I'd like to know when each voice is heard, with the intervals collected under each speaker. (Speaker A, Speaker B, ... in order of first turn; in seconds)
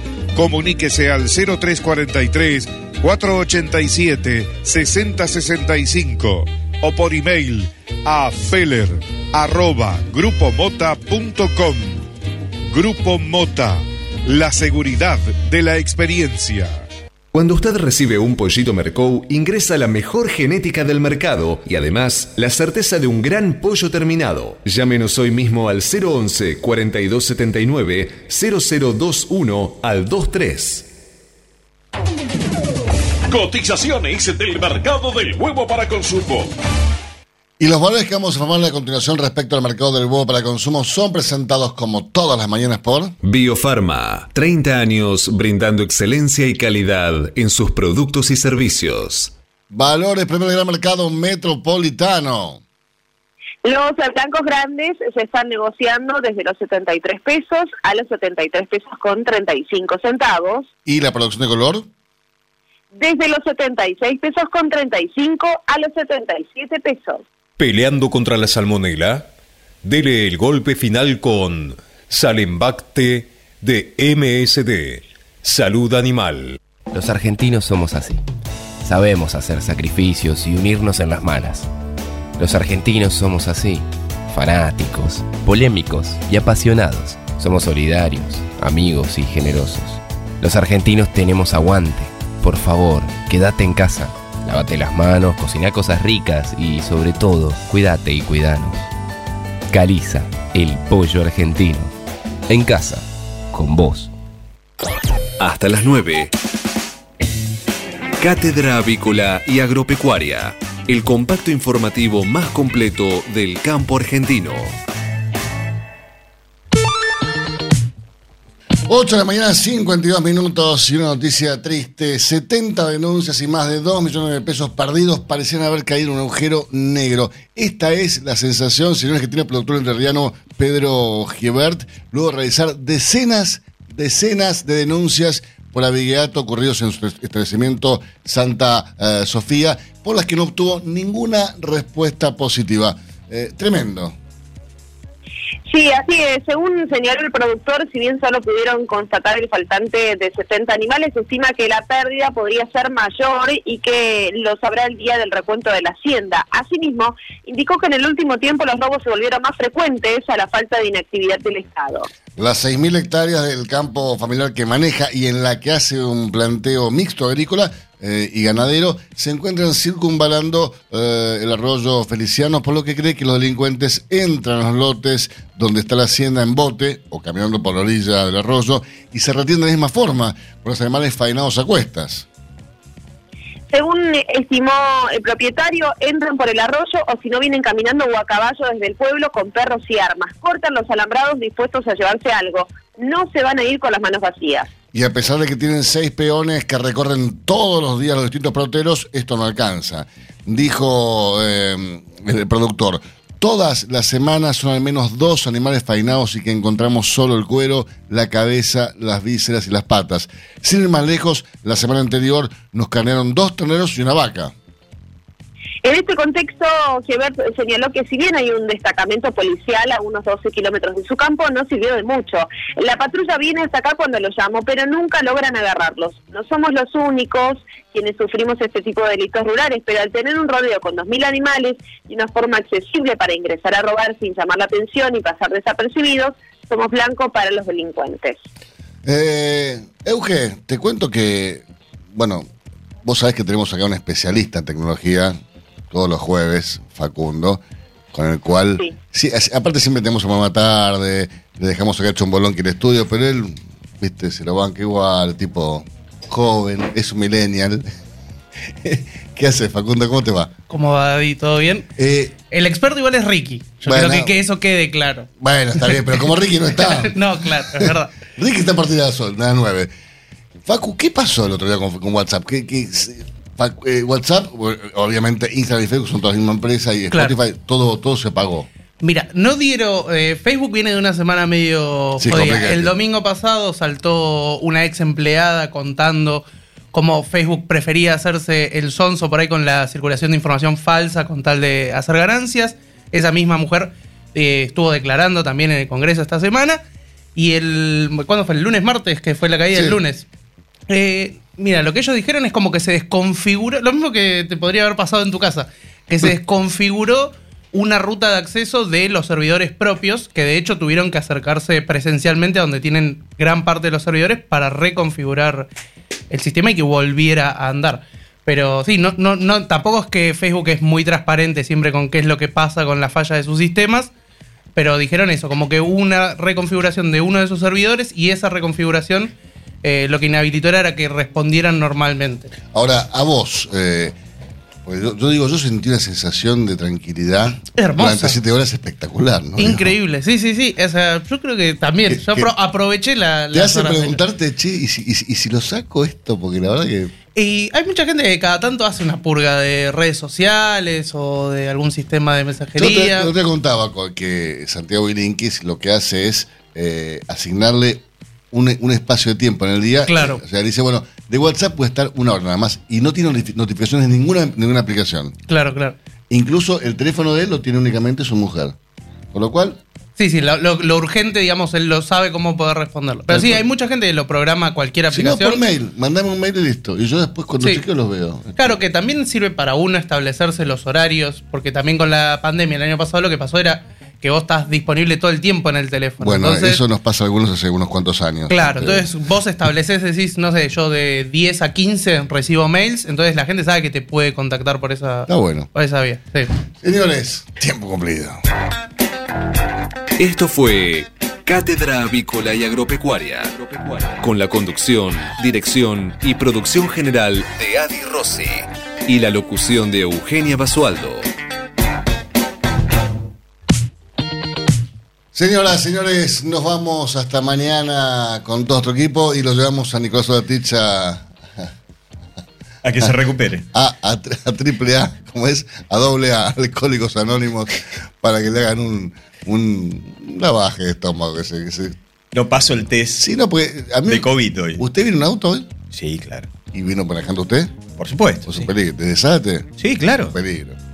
Speaker A: 0.3-12.0, 12.7-16.8
Speaker B: 17.3-30.9, 43.2-49.3, 67.6-69.2, 69.8-76.6, 105.4-106.3, 108.2-114.7, 400.2-411.2
Speaker C: 33.3-36.5
Speaker D: 37.6-43.1, 49.7-52.6, 60.9-61.9, 118.8-144.2, 162.3-182.2, 194.9-214.5, 239.0-242.5, 243.0-245.4, 245.9-247.6, 248.1-257.8, 258.8-260.5, 262.0-262.3, 263.8-264.4, 265.4-269.9, 270.6-278.7, 282.2-282.9, 299.7-300.0, 332.7-334.1, 334.8-339.9, 342.1-342.5, 343.5-347.1, 352.8-365.3, 366.3-368.8, 369.3-369.8, 373.3-373.6, 375.1-378.8, 386.2-389.1, 395.3-395.7, 396.8-398.4, 415.3-421.3, 423.7-432.0, 433.2-435.7, 436.7-437.8, 438.5-439.7, 440.2-440.8
Speaker E: 53.6-60.7, 62.9-67.2, 145.7-162.1, 183.7-194.7, 215.8-238.4
Speaker F: 76.9-78.2, 78.8-81.7, 82.4-98.8, 99.7-101.9, 102.5-104.1
Speaker G: 260.7-261.9, 262.5-265.3, 265.8-266.2, 266.8-268.1, 277.1-277.4, 279.0-296.8, 297.3-300.2, 300.9-315.7, 316.3-324.1, 324.8-332.5, 337.8-338.4, 339.6-344.2, 347.3-353.3, 360.1-360.4, 365.5-365.9, 370.2-375.6, 378.6-386.8, 388.5-396.5
Speaker H: 422.8-423.6, 432.3-433.2, 434.1-434.9, 435.9-436.5, 438.0-438.7, 439.8-440.4